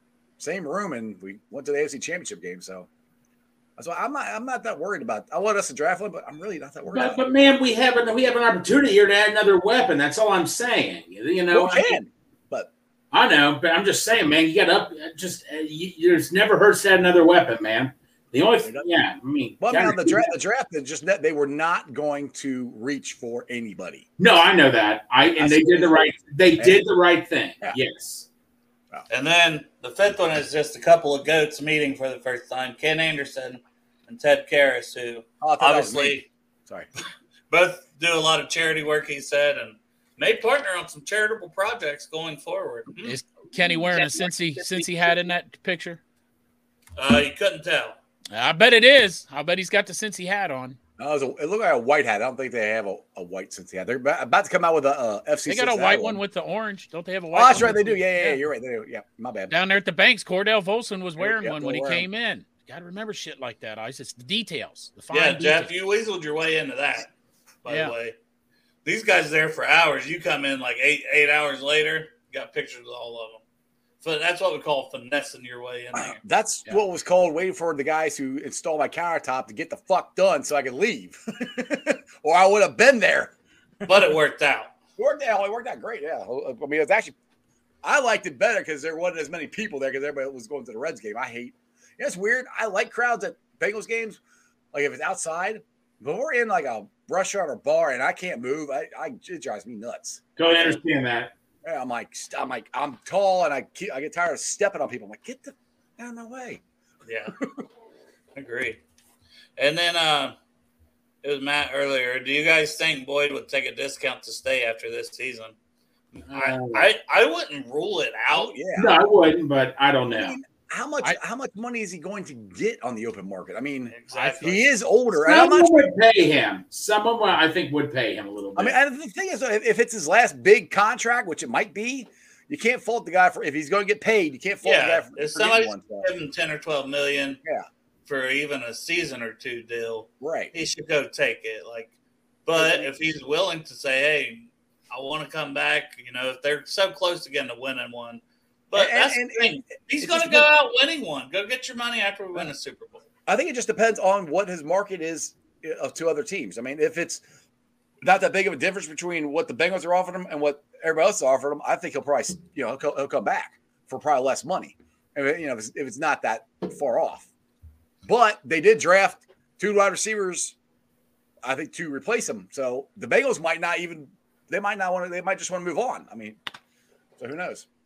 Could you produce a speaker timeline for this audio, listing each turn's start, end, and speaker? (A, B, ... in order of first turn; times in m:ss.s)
0:00.4-0:02.9 A
0:03.8-0:07.2 A
0:06.9-0:12.0 B
0:11.5-0:12.7 A
0:13.1-0:20.3 B
0:19.6-0:24.0 A
0:24.2-0:28.3 B
0:25.4-0:26.8 A
0:29.1-0:36.3 C
0:35.4-0:36.9 A
0:37.5-0:43.2 C
0:43.0-0:46.0 D
0:47.0-0:48.0 C
0:48.3-0:50.8 D
0:51.0-0:56.2 A
0:55.5-0:58.4 D
0:57.3-0:59.6 A
0:59.5-1:05.7 D
1:01.2-1:02.1 A
1:05.1-1:07.1 C
1:07.6-1:08.1 C
1:07.7-1:07.9 D
1:08.8-1:13.4 C
1:14.0-1:16.2 C
1:15.9-1:23.3 A
1:23.8-1:24.7 C
1:25.0-1:27.2 A
1:27.8-1:34.2 A
1:34.7-1:40.8 A
1:40.4-1:41.3 B
1:41.6-1:46.6 A
1:47.0-1:47.4 C
1:48.3-1:48.8 C
1:49.6-1:50.4 C
1:51.2-1:55.5 C
1:56.2-1:58.6 C
1:56.3-1:56.9 B
1:58.3-1:59.0 A
1:58.7-2:00.4 B
2:00.1-2:05.9 A
2:03.9-2:04.7 C
2:05.2-2:08.8 B
2:08.6-2:16.1 A
2:14.6-2:17.4 C
2:18.0-2:21.9 C
2:20.2-2:20.5 A
2:22.4-2:33.0 C
2:22.5-2:22.9 A
2:28.7-2:30.5 A
2:33.3-2:37.2 A
2:38.0-2:47.3 A
2:48.0-2:50.6 A
2:51.4-2:56.4 A
2:57.2-2:57.6 A